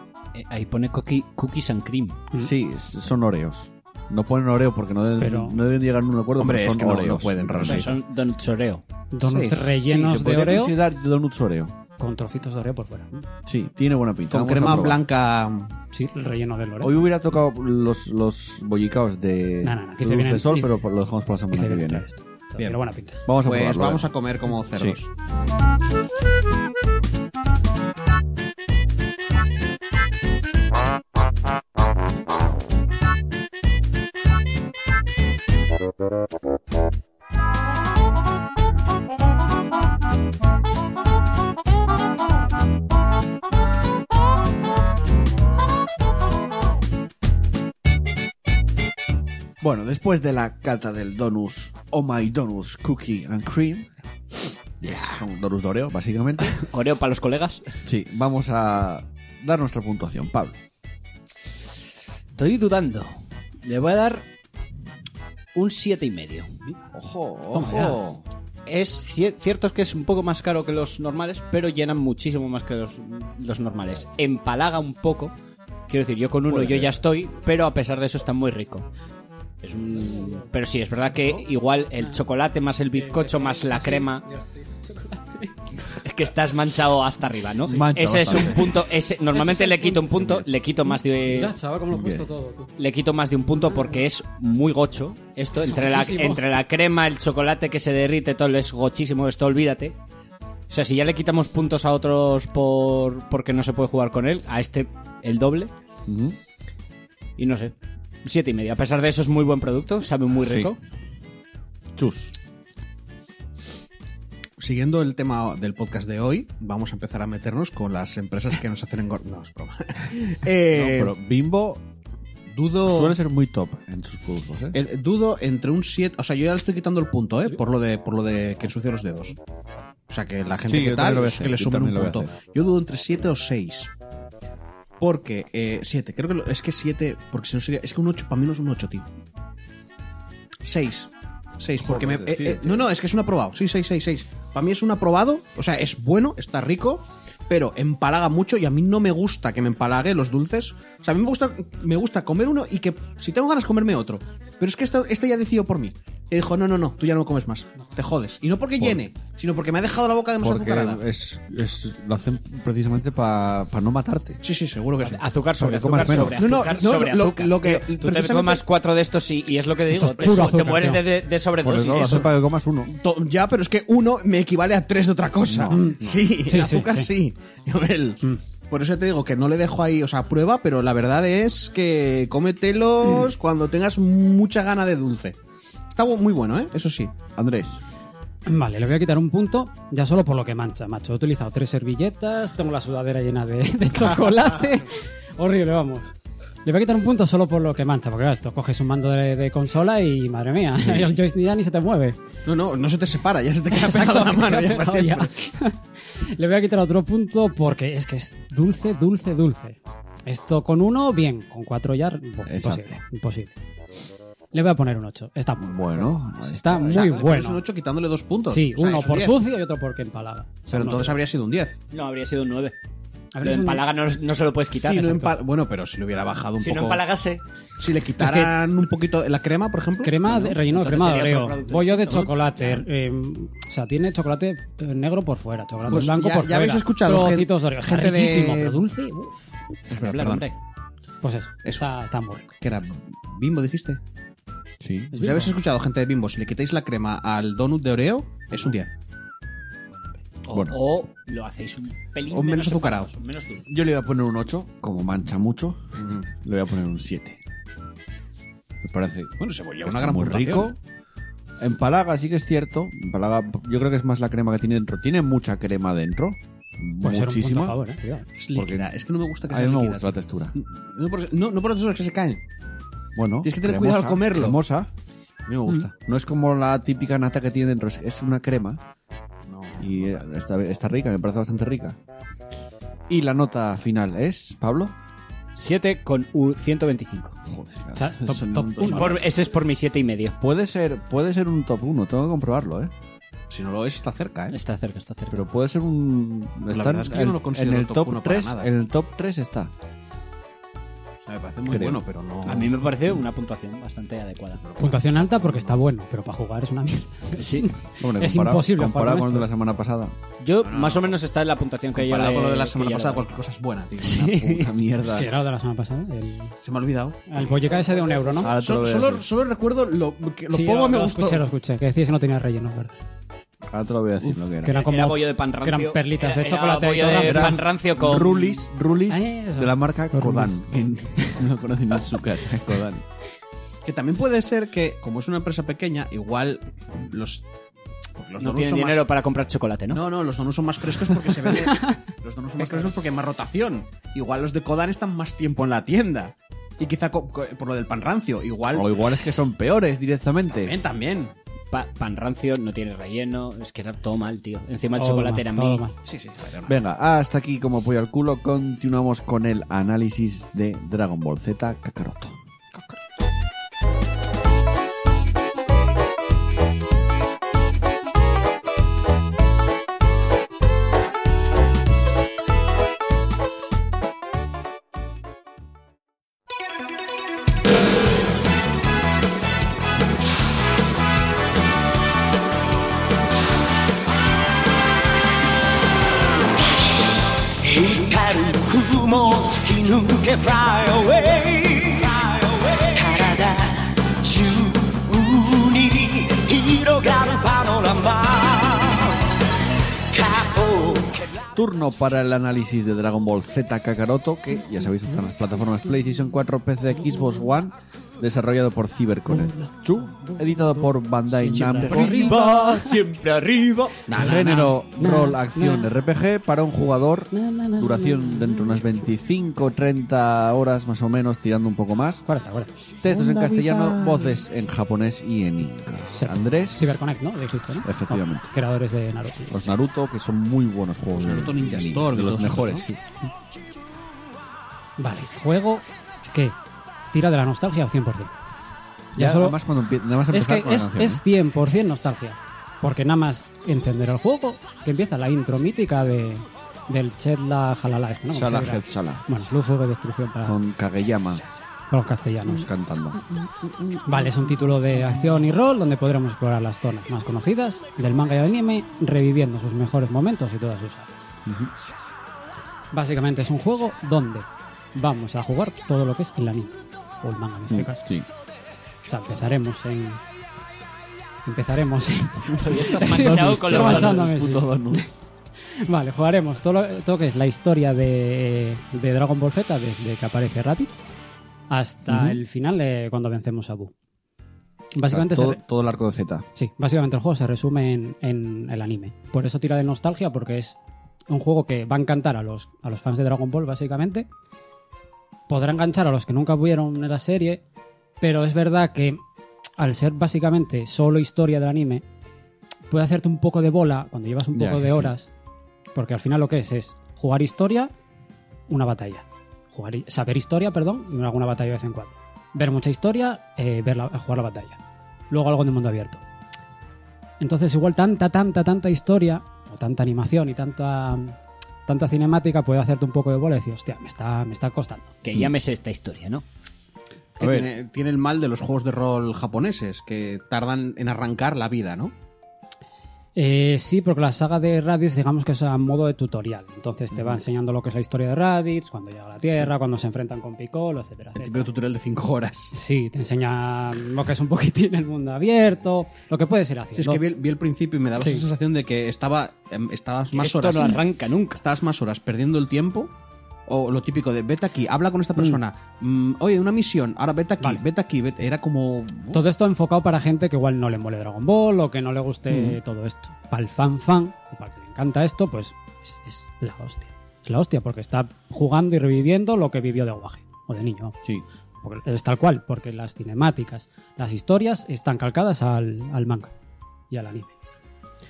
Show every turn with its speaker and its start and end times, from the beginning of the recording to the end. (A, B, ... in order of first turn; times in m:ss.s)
0:00.3-0:02.2 A
0:02.4-0:07.9 B
0:05.2-0:05.6 C
0:06.4-0:07.9 D
0:07.6-0:08.8 A
0:09.1-0:10.8 C
0:09.2-0:11.8 B
0:12.0-0:13.3 C
0:13.4-0:15.0 B
0:14.3-0:15.7 D
0:15.9-0:17.0 C
0:16.8-0:22.0 B
0:19.6-0:20.7 C
0:21.5-0:23.2 C
0:23.2-0:24.0 B
0:23.4-0:25.1 D
0:49.6-0:53.9 B
0:54.8-0:56.6 B
0:54.8-0:55.2 A
0:56.4-0:57.6 A
0:57.8-1:00.6 B
1:02.4-1:04.2 A
1:05.5-1:06.5 A
1:06.9-1:08.2 B
1:07.5-1:08.0 C
1:08.6-1:15.3 A
1:15.9-1:18.9 A
1:16.5-1:16.9 B
1:19.6-1:24.2 A
1:21.1-1:21.4 C
1:22.9-1:25.6 C
1:26.0-1:31.5 A
1:27.6-1:28.8 B
1:29.3-1:30.2 C
1:30.1-1:30.4 B
1:31.2-1:32.7 C
1:31.9-1:32.3 B
1:32.8-1:40.0 A
1:33.6-1:33.9 C
1:35.6-1:36.4 C
1:40.7-1:45.7 A
1:46.0-1:46.4 B
1:47.4-1:50.8 A
1:50.4-1:50.7 B
1:52.0-1:52.3 B
1:54.6-2:01.1 D
2:00.7-2:01.8 B
2:02.5-2:03.2 D
2:02.8-2:04.8 B
2:04.7-2:09.4 D
2:10.1-2:13.9 D
2:10.6-2:12.3 B
2:15.0-2:19.1 D
2:20.6-2:41.0 D
2:21.8-2:22.9 B
2:40.4-2:44.4 B
2:44.4-2:45.2 D
2:45.0-2:52.3 A
2:45.6-2:46.4 B
2:46.0-2:48.6 D
2:49.9-2:51.0 C
2:51.6-2:52.9 B
2:52.9-3:05.4 D
2:55.4-2:56.0 B
2:55.7-2:57.1 C
3:05.9-3:07.1 D
3:07.4-3:07.8 B
3:08.5-3:16.1 C
3:16.6-3:22.2 C
3:22.4-3:25.5 D
3:23.7-3:33.5 C
3:32.4-3:33.0 B
3:34.5-3:37.6 C
3:35.6-3:37.3 B
3:36.8-3:39.4 D
3:38.5-3:41.2 C
3:40.7-3:41.8 D
3:41.9-3:42.7 A
3:43.3-3:43.8 C
3:43.4-3:45.3 A
3:44.7-3:47.0 D
3:46.6-3:47.4 A
3:47.8-3:50.4 D
3:48.2-3:48.5 C
3:50.0-3:59.5 C
3:50.3-3:52.8 A
3:55.8-3:58.8 D
3:59.9-4:00.5 A
3:59.9-4:00.4 D
4:01.2-4:02.5 C
4:02.6-4:04.0 D
4:04.8-4:05.5 B
4:05.1-4:05.5 C
4:05.2-4:08.9 D
4:10.4-4:13.7 A
4:10.5-4:10.8 B
4:12.3-4:13.1 D
4:13.7-4:17.4 B
4:16.0-4:16.2 D
4:18.8-4:20.8 B
4:19.4-4:20.7 D
4:21.6-4:27.8 B
4:27.0-4:28.3 C
4:28.4-4:32.4 D
4:28.5-4:28.9 B
4:29.5-4:30.6 B
4:33.2-4:34.9 B
4:33.4-4:34.6 D
4:35.5-4:35.9 D
4:36.0-4:38.8 B
4:39.5-4:40.2 D
4:39.8-4:42.0 B
4:43.1-4:44.9 B
4:45.5-4:47.4 A
4:47.5-4:49.2 B
4:48.0-4:49.2 C
4:48.8-4:50.4 A
4:50.4-4:52.9 B
4:53.5-4:54.6 D
4:54.5-4:55.5 A
4:55.3-4:59.7 B
4:56.7-4:58.7 D
5:01.2-5:02.7 D
5:01.7-5:02.0 B
5:02.4-5:04.6 A
5:04.6-5:05.8 D
5:04.8-5:09.5 C
5:07.4-5:07.7 A
5:08.0-5:10.1 B
5:10.4-5:13.3 A
5:10.6-5:11.2 D
5:11.9-5:14.3 D
5:14.0-5:14.7 A
5:14.2-5:15.3 B
5:15.1-5:16.5 C
5:16.6-5:21.4 D
5:17.3-5:18.5 C
5:18.4-5:19.2 B
5:20.5-5:22.9 C
5:23.7-5:24.8 B
5:24.6-5:27.6 C
5:24.7-5:28.4 A
5:27.2-5:33.0 B
5:29.1-5:30.6 C
5:33.8-5:37.4 D
5:38.2-5:39.0 D
5:38.4-5:40.0 A
5:39.9-5:42.0 D
5:41.6-5:41.9 C
5:42.2-5:42.9 B
5:42.5-5:48.9 D
5:48.7-5:50.8 B
5:50.5-5:51.3 D
5:51.7-5:55.8 A
5:55.0-5:55.9 C
5:56.0-5:56.8 D
5:56.6-6:02.4 B
6:26.6-6:27.1 E
6:27.6-6:39.2 E
6:40.1-6:41.4 E
6:41.5-6:52.4 B
6:50.2-6:50.7 C
6:51.3-6:53.0 C
6:51.8-6:54.6 A
6:54.1-6:54.7 D
6:54.1-7:02.2 B
6:55.0-6:55.9 C
6:57.3-6:58.8 C
7:02.3-7:02.7 C
7:03.0-7:07.0 B
7:03.1-7:04.4 D
7:06.2-7:09.7 C
7:07.8-7:08.5 B
7:09.5-7:13.0 B
7:11.2-7:12.8 D
7:15.0-7:16.6 C
7:17.1-7:18.3 C
7:19.1-7:19.6 C
7:19.2-7:21.2 B
7:20.3-7:30.6 C
7:28.3-7:29.2 B
7:30.4-7:31.4 B
7:31.9-7:32.7 C
7:32.4-7:33.2 B
7:34.0-7:41.3 C
7:41.4-7:41.7 B
7:42.9-7:48.0 C
7:47.7-7:48.3 B
7:49.1-7:50.2 C
7:51.4-7:55.1 C
7:52.5-7:54.3 A
7:53.0-7:55.1 B
7:55.8-8:01.0 C
8:01.7-8:03.9 C
8:02.1-8:02.4 B
8:04.9-8:05.6 C
8:05.0-8:06.4 B
8:06.6-8:10.8 C
8:11.3-8:14.3 C
8:15.5-8:17.6 C
8:18.2-8:19.2 C
8:19.8-8:22.0 C
8:22.9-8:25.3 C
8:24.5-8:25.1 B
8:25.9-8:27.9 C
8:28.7-8:34.8 C
8:35.3-8:36.2 C
8:37.4-8:45.1 C
8:45.2-8:46.4 A
8:47.4-8:52.1 D
8:47.4-8:47.7 B
8:53.3-9:01.7 C
9:01.4-9:02.7 D
9:02.7-9:07.2 C
9:06.9-9:11.0 D
9:08.2-9:08.5 C
9:10.3-9:11.6 A
9:11.6-9:13.1 D
9:13.7-9:19.4 D
9:19.3-9:31.2 C
9:31.8-9:36.5 C
9:37.1-9:37.5 C